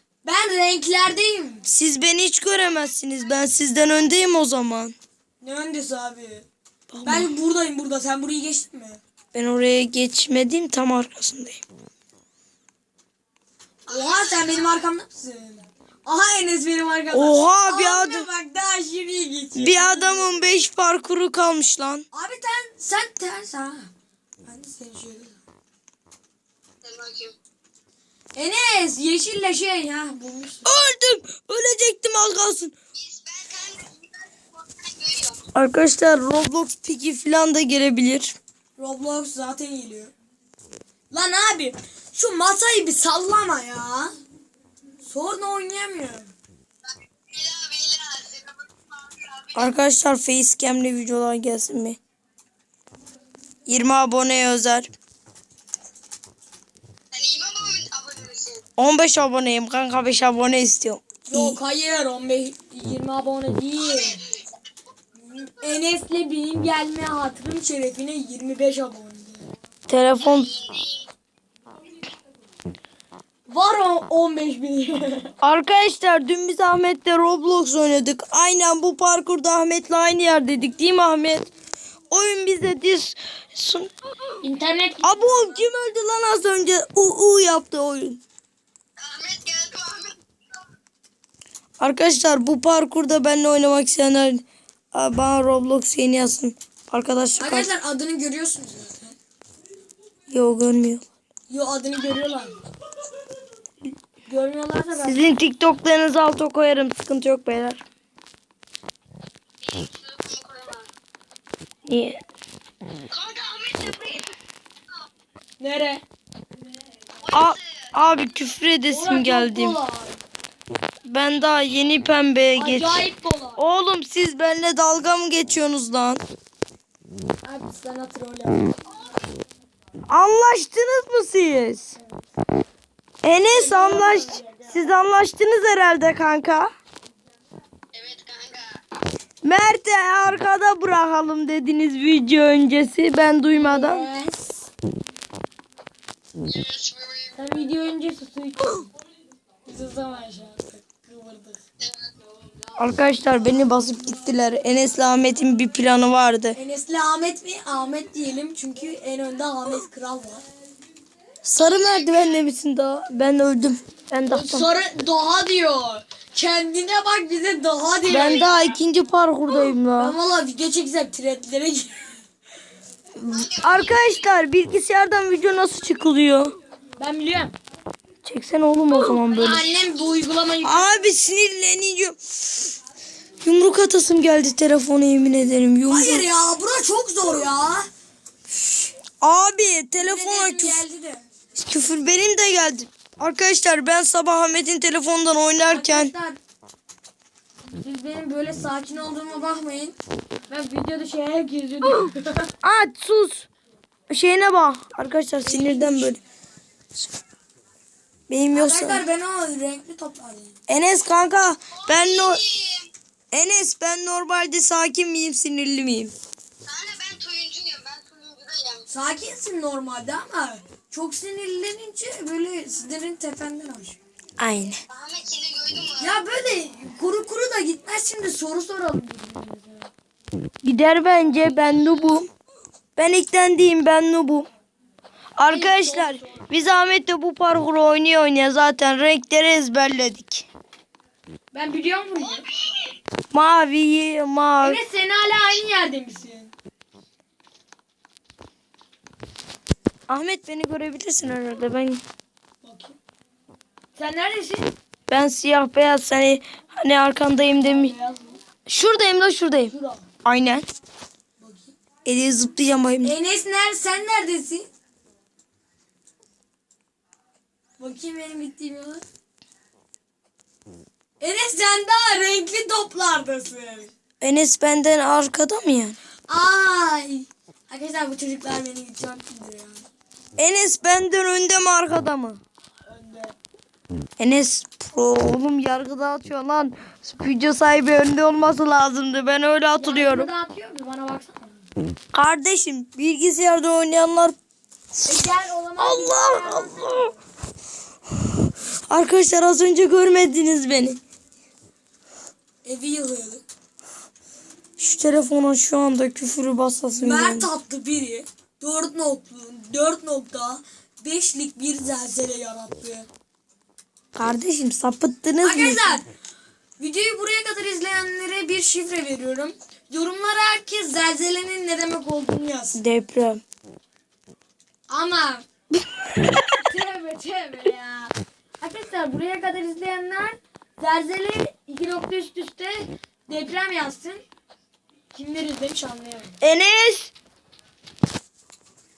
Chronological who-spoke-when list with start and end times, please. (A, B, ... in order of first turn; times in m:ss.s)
0:00.2-0:01.7 A
0:01.7-0:04.9 B
0:05.4-0:06.5 A
0:06.9-0:07.3 B
0:07.0-0:09.0 A
0:09.3-0:11.6 B
0:13.9-0:20.3 A
0:14.1-0:14.5 C
0:17.1-0:18.3 B
0:19.6-0:22.0 B
0:22.1-0:23.9 A
0:24.4-0:25.4 A
0:26.8-0:27.3 C
0:28.3-0:30.7 A
0:30.6-0:32.7 B
0:32.9-0:35.4 C
0:35.5-0:38.4 B
0:38.8-0:40.1 A
0:41.1-0:44.1 A
0:45.0-0:46.3 A
0:47.2-0:49.7 C
0:49.5-0:52.0 B
0:53.7-0:54.9 B
0:57.1-0:58.6 C
0:58.8-1:01.6 B
1:01.2-1:04.2 A
1:03.9-1:04.3 C
1:05.2-1:09.5 A
1:09.9-1:10.6 B
1:10.2-1:11.1 C
1:13.5-1:15.3 A
1:15.4-1:21.5 B
1:22.1-1:23.9 B
1:24.4-1:25.7 A
1:25.0-1:28.2 B
1:29.0-1:30.2 C
1:31.8-1:37.7 B
1:37.4-1:39.2 A
1:40.3-1:41.0 B
1:41.5-1:42.6 A
1:44.3-1:45.2 A
1:45.0-1:47.8 B
1:49.6-1:50.9 C
1:51.9-1:52.2 B
1:53.1-1:54.3 C
1:55.6-1:56.0 A
1:57.2-1:57.8 C
1:57.3-1:59.8 B
1:58.9-2:00.2 A
2:01.0-2:03.0 B
2:02.6-2:03.6 A
2:03.6-2:06.2 B
2:07.4-2:08.7 A
2:10.1-2:11.9 B
2:13.2-2:16.7 B
2:13.3-2:14.8 A
2:17.9-2:18.8 C
2:19.4-2:24.0 B
2:23.5-2:24.6 A
2:26.4-2:27.3 C
2:27.4-2:28.9 A
2:29.6-2:31.6 A
2:32.8-2:36.6 B
2:36.5-2:40.4 A
2:41.4-2:44.7 B
2:44.3-2:48.5 A
2:48.1-2:50.1 B
2:48.2-2:48.6 C
2:50.0-2:52.2 A
2:53.2-2:56.5 B
2:53.3-2:54.3 C
2:57.0-2:57.6 A
2:58.2-2:59.7 B
2:58.9-3:01.1 A
3:00.6-3:02.8 B
3:03.4-3:06.3 B
3:05.9-3:07.9 A
3:08.5-3:08.9 A
3:09.2-3:10.8 B
3:10.0-3:11.2 A
3:11.5-3:16.1 B
3:15.6-3:16.4 A
3:17.8-3:20.0 A
3:20.5-3:22.5 A
3:22.6-3:23.4 B
3:24.1-3:26.2 B
3:25.4-3:26.2 A
3:28.3-3:29.0 B
3:28.5-3:30.6 A
3:30.7-3:32.4 B
3:31.8-3:32.9 C
3:33.3-3:36.1 B
3:36.6-3:38.8 C
3:38.9-3:44.0 A
3:44.4-3:44.8 B
3:44.9-3:46.2 C
3:46.0-3:49.9 A
3:50.6-3:52.3 B
3:53.0-3:54.5 B
3:55.4-4:00.5 B
3:55.5-3:56.4 A
4:01.5-4:02.5 A
4:03.3-4:04.8 B
4:04.6-4:06.5 A
4:10.1-4:12.0 B
4:12.6-4:13.0 A
4:14.0-4:14.7 A
4:15.1-4:17.9 B
4:17.6-4:18.4 A
4:18.7-4:19.7 B
4:19.7-4:20.0 A
4:20.2-4:20.7 B
4:21.4-4:21.7 A
4:22.0-4:23.1 B
4:23.0-4:24.7 A
4:27.8-4:29.0 A
4:31.2-4:33.9 A
4:34.2-4:36.0 B
4:36.3-4:39.8 A
4:40.4-4:42.4 B
4:42.9-4:43.3 A
4:44.2-4:50.3 B
4:49.8-4:51.7 A
4:52.1-4:54.3 B
4:55.0-4:57.1 A
4:55.8-4:57.1 B
4:58.5-5:01.0 B
5:02.6-5:03.4 A
5:04.8-5:07.5 B
5:06.9-5:13.1 A
5:14.2-5:16.0 B
5:15.4-5:16.0 A
5:16.8-5:22.8 A
5:22.8-5:23.4 B
5:24.9-5:25.4 A
5:26.6-5:34.2 A
5:35.1-5:36.3 A
5:36.4-5:37.1 B